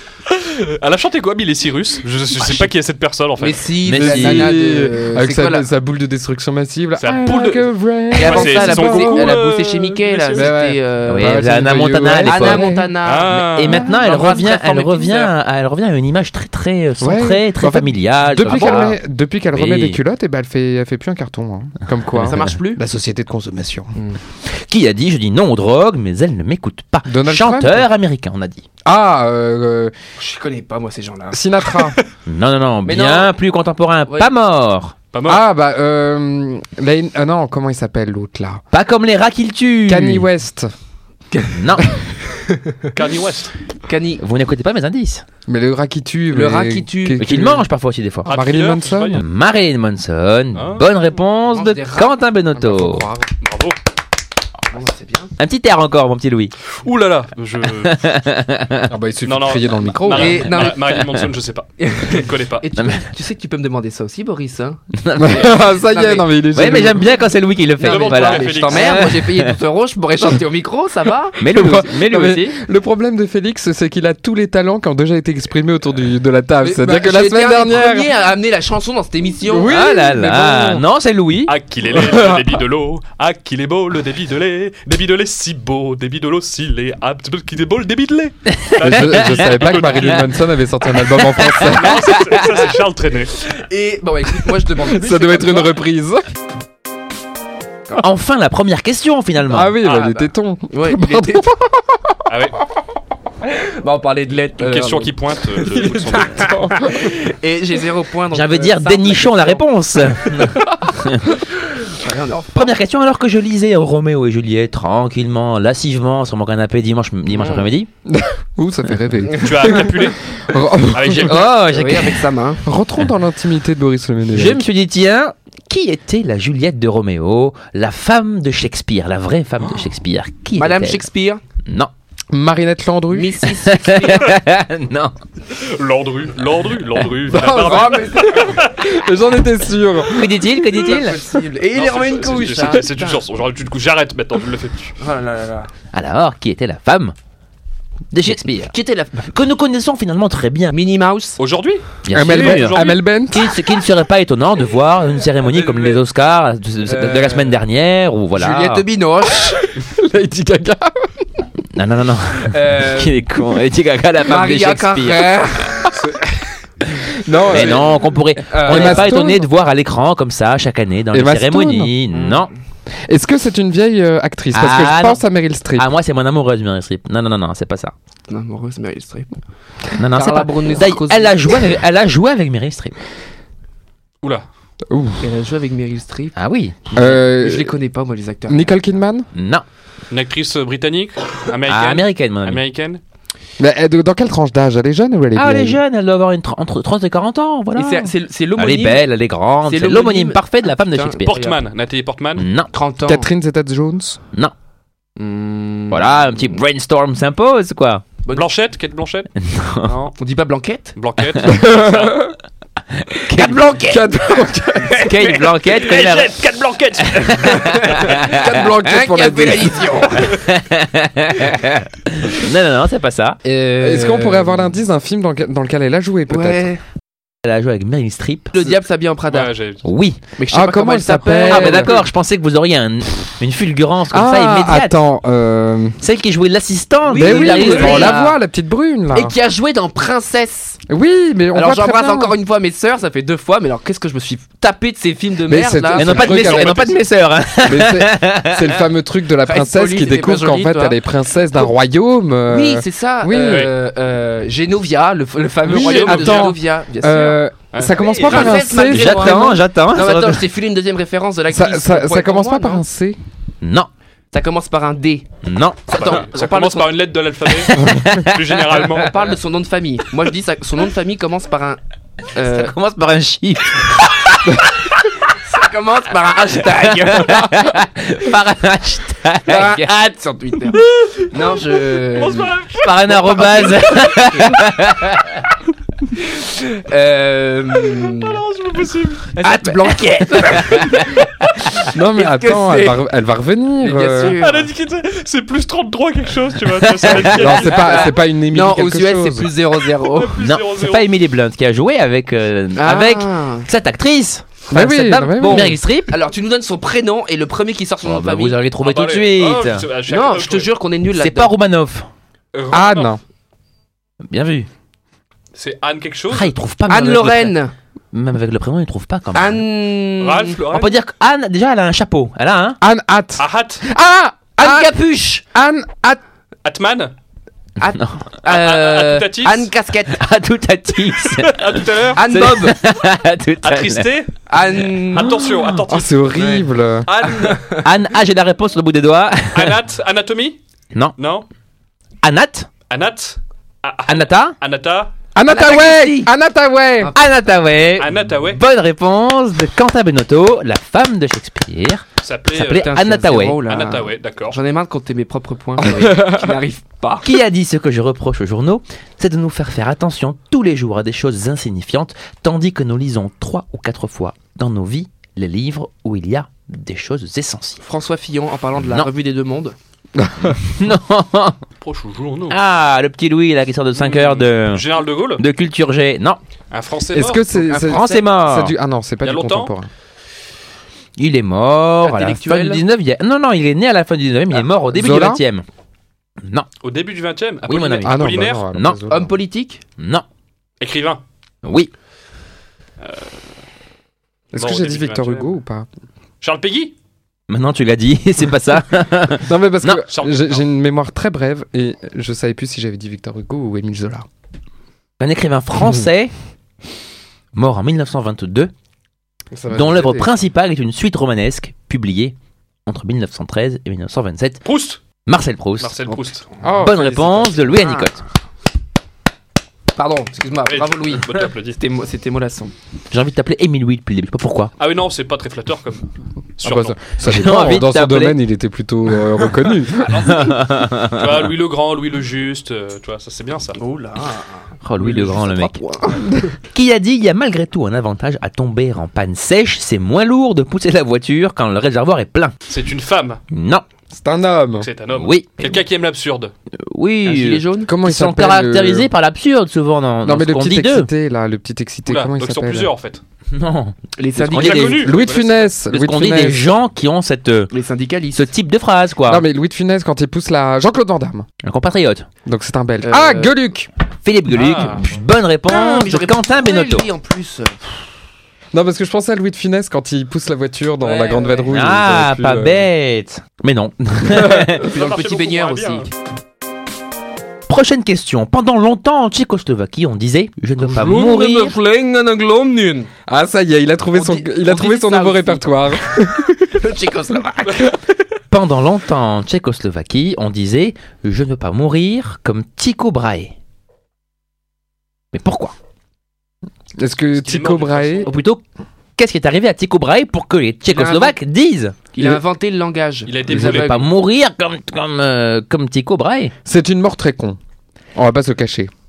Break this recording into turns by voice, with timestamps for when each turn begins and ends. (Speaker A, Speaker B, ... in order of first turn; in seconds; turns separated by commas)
Speaker A: 0.3-3.6, Speaker B: 2.4-2.7, Speaker B: 3.4-5.7, Speaker C: 3.8-4.5, Speaker D: 4.0-9.3, Speaker A: 7.0-10.5, Speaker B: 8.1-11.5, Speaker D: 10.3-12.9, Speaker C: 11.1-12.7, Speaker B: 12.2-15.2, Speaker A: 13.0-13.9, Speaker C: 13.3-19.0, Speaker A: 15.0-15.3, Speaker D: 17.0-23.9, Speaker B: 18.5-18.9, Speaker C: 19.5-20.0, Speaker B: 22.1-22.8, Speaker C: 22.2-22.5, Speaker C: 24.4-28.6, Speaker D: 27.1-27.9, Speaker D: 28.8-29.9, Speaker B: 30.2-31.9, Speaker D: 31.3-32.0, Speaker C: 32.2-34.9, Speaker B: 32.8-33.3, Speaker A: 35.1-35.4, Speaker D: 35.2-38.6, Speaker C: 38.7-40.3, Speaker D: 39.9-40.7, Speaker B: 41.3-41.6, Speaker C: 41.5-41.9, Speaker B: 42.4-42.9, Speaker A: 42.9-43.5, Speaker B: 43.9-44.2, Speaker C: 44.2-45.2, Speaker D: 45.5-47.6, Speaker B: 46.3-47.3, Speaker C: 47.2-48.3, Speaker A: 48.2-49.2, Speaker D: 48.2-49.2, Speaker C: 49.1-53.1, Speaker A: 50.5-50.9, Speaker B: 51.5-52.1, Speaker D: 52.5-53.3, Speaker A: 53.4-53.8, Speaker B: 54.7-55.3, Speaker C: 55.4-56.5, Speaker A: 56.8-58.0, Speaker C: 57.8-58.9, Speaker D: 58.9-60.5, Speaker A: 59.2-62.6, Speaker B: 60.1-60.8, Speaker C: 60.6-61.3, Speaker B: 61.8-64.8, Speaker C: 62.8-63.1, Speaker C: 65.0-65.6, Speaker D: 65.1-67.1, Speaker B: 65.3-66.9, Speaker C: 66.5-69.5, Speaker B: 67.8-71.7, Speaker A: 67.8-69.0, Speaker C: 71.4-72.6, Speaker D: 71.5-78.1, Speaker B: 76.6-79.8, Speaker D: 79.4-80.8, Speaker C: 79.6-81.5, Speaker A: 81.5-90.3, Speaker D: 81.9-82.6, Speaker C: 88.5-90.3, Speaker D: 88.8-92.2, Speaker C: 90.9-92.6, Speaker A: 91.6-93.4, Speaker B: 93.5-95.8, Speaker D: 94.9-96.2, Speaker C: 98.0-99.8, Speaker D: 99.5-102.0, Speaker B: 99.8-101.5, Speaker A: 102.3-102.5, Speaker B: 103.4-105.1, Speaker A: 104.6-106.6, Speaker D: 105.8-107.2, Speaker B: 105.8-109.6, Speaker C: 108.3-111.4, Speaker D: 110.6-110.9, Speaker B: 111.8-112.7, Speaker C: 112.5-117.9, Speaker B: 117.3-117.7, Speaker D: 118.0-121.5, Speaker B: 119.3-119.8, Speaker A: 119.4-120.2, Speaker A: 120.9-121.5, Speaker C: 121.0-122.2, Speaker B: 121.7-122.7, Speaker D: 122.6-124.6, Speaker C: 124.3-131.0, Speaker B: 130.6-131.4, Speaker C: 131.7-131.9, Speaker D: 132.3-133.5, Speaker B: 133.1-134.4, Speaker C: 133.6-135.1, Speaker A: 135.5-138.7, Speaker D: 137.2-140.4, Speaker B: 137.4-138.4, Speaker C: 140.1-141.2, Speaker B: 140.6-143.2, Speaker A: 141.7-145.0, Speaker B: 145.0-145.7, Speaker C: 145.9-147.1, Speaker C: 148.1-148.7, Speaker B: 148.7-149.3, Speaker C: 149.2-150.7, Speaker B: 150.7-151.4, Speaker A: 151.4-153.0, Speaker C: 152.0-158.8, Speaker D: 152.1-153.5, Speaker A: 155.5-156.0, Speaker B: 156.8-157.6, Speaker B: 158.3-159.6, Speaker D: 159.8-161.1, Speaker C: 161.7-165.3, Speaker B: 162.4-163.2, Speaker B: 164.2-166.4, Speaker D: 167.0-169.5, Speaker B: 167.4-167.9, Speaker C: 167.5-172.5, Speaker B: 168.5-169.3, Speaker D: 171.1-171.9, Speaker B: 172.1-172.5, Speaker D: 173.1-175.9, Speaker C: 174.5-175.2, Speaker C: 175.8-177.9, Speaker B: 178.3-179.3, Speaker C: 180.0-182.9, Speaker B: 180.1-181.7, Speaker D: 184.9-185.2, Speaker B: 185.2-186.3, Speaker C: 186.3-187.1, Speaker B: 186.9-188.7, Speaker D: 186.9-187.7, Speaker D: 188.5-189.3, Speaker C: 189.3-189.6, Speaker A: 190.1-193.0, Speaker C: 191.7-192.6, Speaker D: 193.6-195.8, Speaker C: 195.3-201.4, Speaker B: 197.7-199.1, Speaker B: 199.6-201.6, Speaker A: 201.2-202.5, Speaker C: 202.4-202.7, Speaker B: 202.7-203.3, Speaker D: 203.1-204.2, Speaker B: 205.2-206.2, Speaker C: 205.9-208.0, Speaker A: 208.3-209.3, Speaker C: 209.3-209.9, Speaker A: 209.8-210.1, Speaker B: 210.2-210.9, Speaker A: 210.9-212.2, Speaker D: 211.4-212.3, Speaker C: 212.9-214.0, Speaker B: 213.4-214.1, Speaker D: 213.8-215.1, Speaker B: 214.8-215.5, Speaker C: 214.9-216.4, Speaker A: 215.3-217.8, Speaker C: 217.0-218.6, Speaker B: 217.5-220.4, Speaker D: 217.9-220.2, Speaker C: 220.2-223.4, Speaker B: 223.4-224.8, Speaker D: 223.8-226.7, Speaker B: 226.3-226.8, Speaker C: 227.4-228.7, Speaker B: 228.5-229.5, Speaker A: 229.3-229.8, Speaker C: 229.8-230.2, Speaker B: 230.4-232.0, Speaker D: 230.5-232.0, Speaker C: 231.4-235.0, Speaker D: 234.1-236.0, Speaker C: 236.0-238.2, Speaker B: 237.0-238.3, Speaker D: 237.2-239.3, Speaker B: 239.1-240.8, Speaker D: 240.9-242.3, Speaker B: 241.5-246.8, Speaker D: 245.5-246.9, Speaker C: 245.9-248.8, Speaker D: 247.6-253.7, Speaker B: 249.4-251.0, Speaker B: 252.5-257.4, Speaker A: 253.4-253.7, Speaker D: 255.6-259.6, Speaker A: 255.6-256.6, Speaker A: 257.7-258.7, Speaker B: 258.2-262.8, Speaker C: 258.4-260.4, Speaker D: 261.5-263.2, Speaker C: 263.6-263.9, Speaker B: 264.3-265.3, Speaker C: 265.4-266.2, Speaker B: 265.9-267.0, Speaker A: 265.9-269.1, Speaker C: 267.5-268.9, Speaker B: 268.8-271.8, Speaker B: 272.3-272.7, Speaker C: 272.4-274.7, Speaker B: 275.3-277.5, Speaker C: 276.6-279.9, Speaker B: 279.4-282.5, Speaker A: 282.1-283.9, Speaker C: 282.8-285.4, Speaker B: 283.1-284.6, Speaker B: 286.2-288.4, Speaker A: 288.1-289.4, Speaker C: 289.4-291.2, Speaker B: 289.4-293.0, Speaker D: 291.9-294.4, Speaker B: 293.8-294.7, Speaker A: 294.2-298.1, Speaker C: 296.8-297.4, Speaker B: 297.2-300.4, Speaker D: 297.2-299.5, Speaker A: 300.1-301.1, Speaker C: 300.4-306.1, Speaker B: 302.7-303.7, Speaker D: 304.7-305.8, Speaker B: 305.4-308.6, Speaker C: 308.0-309.9, Speaker A: 308.8-310.7, Speaker B: 310.1-311.5, Speaker C: 311.1-312.1, Speaker A: 312.5-313.1, Speaker D: 312.7-313.2, Speaker C: 314.2-314.7, Speaker A: 315.5-316.5, Speaker C: 316.3-317.5, Speaker B: 316.9-317.7, Speaker C: 318.1-319.6, Speaker B: 319.3-320.6, Speaker A: 320.2-321.0, Speaker C: 320.7-322.8, Speaker D: 322.8-324.9, Speaker A: 323.4-323.8, Speaker B: 324.6-325.4, Speaker D: 325.5-326.2, Speaker A: 326.6-327.1, Speaker B: 327.8-330.2, Speaker C: 327.8-328.2, Speaker A: 328.4-329.7, Speaker C: 330.1-334.1, Speaker A: 331.3-332.4, Speaker B: 332.2-332.8, Speaker A: 333.6-336.4, Speaker B: 334.5-335.4, Speaker D: 335.3-337.1, Speaker B: 336.3-336.7, Speaker A: 337.0-337.7, Speaker B: 337.4-337.9, Speaker C: 337.8-339.8, Speaker A: 339.5-340.6, Speaker A: 341.1-341.4, Speaker C: 342.2-342.7, Speaker A: 342.9-345.1, Speaker C: 344.1-344.5, Speaker D: 345.3-347.1, Speaker B: 345.4-346.3, Speaker C: 347.1-353.6, Speaker A: 348.0-348.6, Speaker A: 352.2-353.0, Speaker B: 352.7-357.3, Speaker A: 353.6-354.6, Speaker D: 355.8-356.6, Speaker C: 357.2-367.8, Speaker B: 367.8-369.8, Speaker C: 368.8-369.1, Speaker D: 370.2-370.6, Speaker C: 370.4-371.6, Speaker A: 371.8-372.6, Speaker C: 372.5-374.8, Speaker A: 374.0-375.4, Speaker C: 375.4-376.4, Speaker A: 376.7-377.5, Speaker D: 377.1-379.9, Speaker B: 377.5-378.3, Speaker C: 377.8-378.7, Speaker A: 379.2-379.7, Speaker C: 381.2-385.6, Speaker B: 382.0-382.8, Speaker D: 384.9-385.4, Speaker C: 386.4-386.7, Speaker A: 386.8-388.6, Speaker C: 387.7-389.0, Speaker D: 388.0-389.4, Speaker B: 389.1-389.8, Speaker C: 390.0-390.2, Speaker A: 390.8-391.2, Speaker C: 391.6-391.9, Speaker A: 393.0-393.3, Speaker D: 394.5-395.9, Speaker A: 394.6-395.6, Speaker A: 396.4-396.9, Speaker C: 397.5-400.0, Speaker D: 399.4-404.2, Speaker A: 400.1-400.6, Speaker C: 405.2-406.3, Speaker C: 407.5-408.7, Speaker D: 409.5-410.3, Speaker C: 409.7-414.6, Speaker A: 414.6-415.0, Speaker C: 415.2-415.9, Speaker A: 415.8-416.4, Speaker B: 416.1-416.9, Speaker D: 416.6-417.6, Speaker C: 416.8-418.2, Speaker B: 417.6-418.1, Speaker B: 419.9-422.7, Speaker A: 420.6-421.8, Speaker C: 423.1-424.7, Speaker A: 424.8-426.1, Speaker A: 426.6-427.0, Speaker D: 426.6-430.4, Speaker C: 427.2-428.4, Speaker A: 430.1-433.8, Speaker C: 430.2-431.4, Speaker B: 433.8-436.5, Speaker C: 434.8-435.8, Speaker C: 436.7-442.6, Speaker A: 442.7-443.4, Speaker C: 443.5-443.8, Speaker D: 444.1-444.9, Speaker A: 444.8-446.5, Speaker C: 445.1-445.8, Speaker C: 446.7-451.1, Speaker B: 447.2-447.9, Speaker D: 447.9-449.1, Speaker D: 450.2-452.9, Speaker A: 452.1-453.2, Speaker C: 453.5-455.2, Speaker B: 454.2-455.1, Speaker A: 454.6-455.7, Speaker D: 454.9-456.7, Speaker C: 455.9-457.7, Speaker B: 457.7-458.5, Speaker C: 458.3-459.4, Speaker D: 459.2-461.4, Speaker C: 461.6-462.3, Speaker D: 462.4-463.9, Speaker B: 463.0-463.5, Speaker C: 464.2-467.1, Speaker A: 464.5-465.1, Speaker B: 465.7-468.0, Speaker D: 468.7-472.9, Speaker B: 471.0-471.7, Speaker C: 471.7-474.9, Speaker D: 474.3-474.8, Speaker B: 474.5-476.1, Speaker A: 474.8-476.1, Speaker C: 477.7-481.8, Speaker B: 480.8-483.1, Speaker D: 483.3-486.6, Speaker B: 484.1-486.0, Speaker B: 486.7-487.9, Speaker C: 488.5-493.5, Speaker C: 495.3-495.7, Speaker D: 497.0-498.3, Speaker A: 497.4-498.3, Speaker C: 498.2-498.6, Speaker C: 499.2-502.1, Speaker B: 500.9-501.4, Speaker B: 502.1-504.1, Speaker A: 503.2-504.0, Speaker C: 503.5-506.5, Speaker D: 506.6-507.6, Speaker D: 508.1-508.9